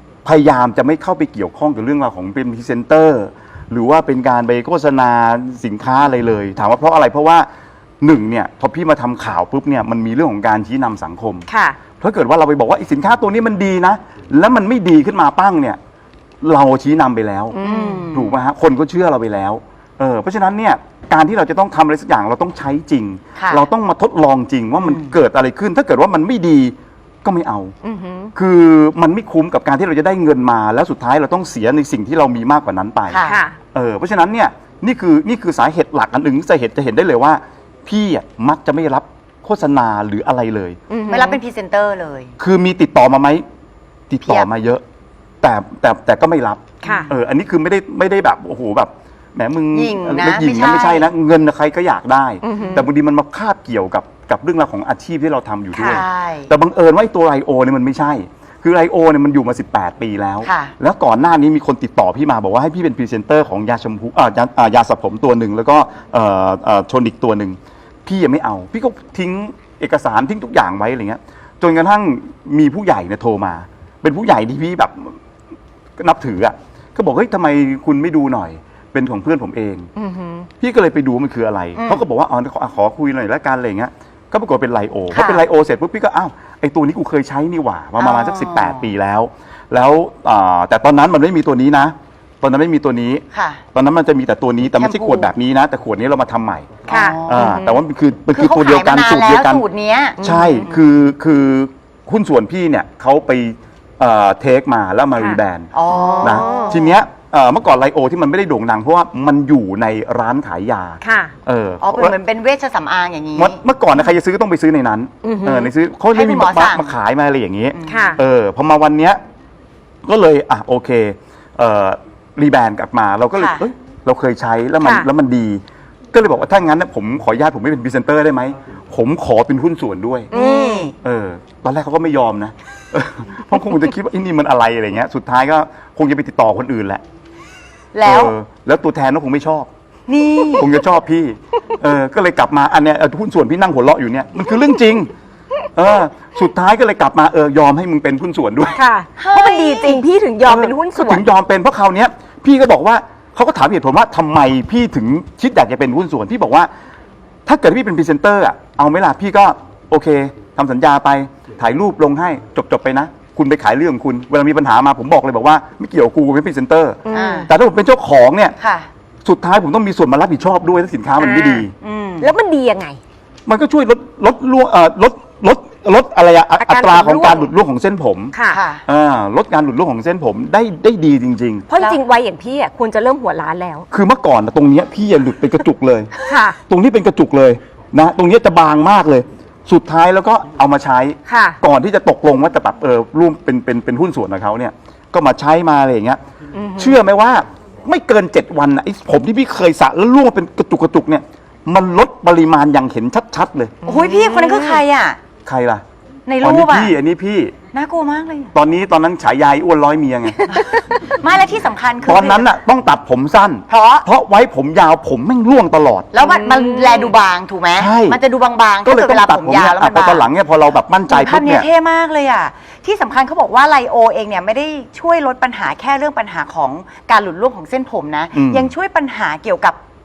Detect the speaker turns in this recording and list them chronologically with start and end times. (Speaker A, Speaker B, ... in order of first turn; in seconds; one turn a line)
Speaker A: 0.2-7.5
Speaker A: 8.0-11.5
Speaker B: 11.5-11.8
Speaker A: 12.0-15.8
Speaker A: 16.4-17.6
Speaker B: 17.5-18.1
Speaker C: 17.6-18.4
Speaker A: 18.1-27.7
Speaker C: 23.4-23.6
Speaker C: 24.8-25.1
Speaker B: 27.8-28.3
Speaker A: 28.3-33.2
Speaker C: 33.1-33.4
Speaker B: 33.2-33.6
Speaker A: 33.7-40.8
Speaker B: 40.9-41.4
Speaker C: 41.1-42.3
Speaker A: 42.4-43.5
Speaker A: 44.1-44.8
Speaker C: 44.2-44.5
Speaker A: 45.4-75.2
Speaker C: 46.8-47.1
Speaker B: 46.8-47.1
Speaker C: 49.7-51.1
Speaker B: 52.4-52.9
Speaker B: 55.7-56.0
Speaker C: 55.9-56.5
Speaker C: 60.4-60.7
Speaker A: 76.0-79.9
Speaker B: 80.0-80.5
Speaker A: 80.6-99.6
Speaker C: 81.8-82.0
Speaker C: 85.1-85.4
Speaker C: 88.0-88.9
Speaker C: 93.3-93.6
Speaker C: 94.8-95.3
Speaker C: 96.9-97.6
Speaker B: 96.9-97.8
Speaker C: 98.3-100.8
Speaker A: 100.2-105.7
Speaker B: 100.2-100.7
Speaker C: 105.7-106.9
Speaker B: 105.9-106.8
Speaker A: 106.2-112.1
Speaker B: 111.0-111.3
Speaker C: 111.8-113.6
Speaker A: 113.4-119.2
Speaker B: 115.2-115.7
Speaker C: 116.1-116.9
Speaker C: 117.8-118.2
Speaker B: 117.9-118.2
Speaker A: 120.0-130.3
Speaker C: 123.4-123.7
Speaker B: 124.8-125.1
Speaker B: 130.3-130.9
Speaker C: 130.3-130.9
Speaker A: 131.0-137.0
Speaker C: 137.9-138.3
Speaker A: 138.0-139.7
Speaker C: 140.1-140.7
Speaker A: 140.6-145.1
Speaker A: 145.8-148.8
Speaker B: 148.7-151.2
Speaker C: 149.2-150.0
Speaker A: 150.4-156.7
Speaker A: 157.5-168.6
Speaker B: 167.1-167.5
Speaker C: 167.1-167.5
Speaker C: 168.6-168.9
Speaker A: 169.2-171.8
Speaker B: 171.2-171.7
Speaker C: 171.8-172.3
Speaker B: 172.2-173.0
Speaker A: 173.5-178.3
Speaker B: 176.6-177.5
Speaker B: 178.3-178.6
Speaker C: 178.5-178.8
Speaker A: 178.8-181.7
Speaker B: 181.7-183.9
Speaker A: 183.9-186.1
Speaker B: 186.3-186.6
Speaker A: 186.7-196.2
Speaker B: 191.3-191.6
Speaker B: 196.5-197.0
Speaker A: 196.8-203.7
Speaker C: 203.8-205.2
Speaker B: 203.8-204.8
Speaker A: 205.4-205.8
Speaker C: 206.3-206.9
Speaker A: 206.4-207.6
Speaker C: 207.7-208.5
Speaker A: 208.5-210.6
Speaker B: 210.4-211.1
Speaker C: 210.5-212.5
Speaker A: 212.1-216.1
Speaker C: 213.7-214.1
Speaker C: 216.1-220.3
Speaker B: 216.2-217.1
Speaker A: 217.8-218.2
Speaker A: 218.8-221.7
Speaker C: 221.1-229.8
Speaker A: 228.3-228.7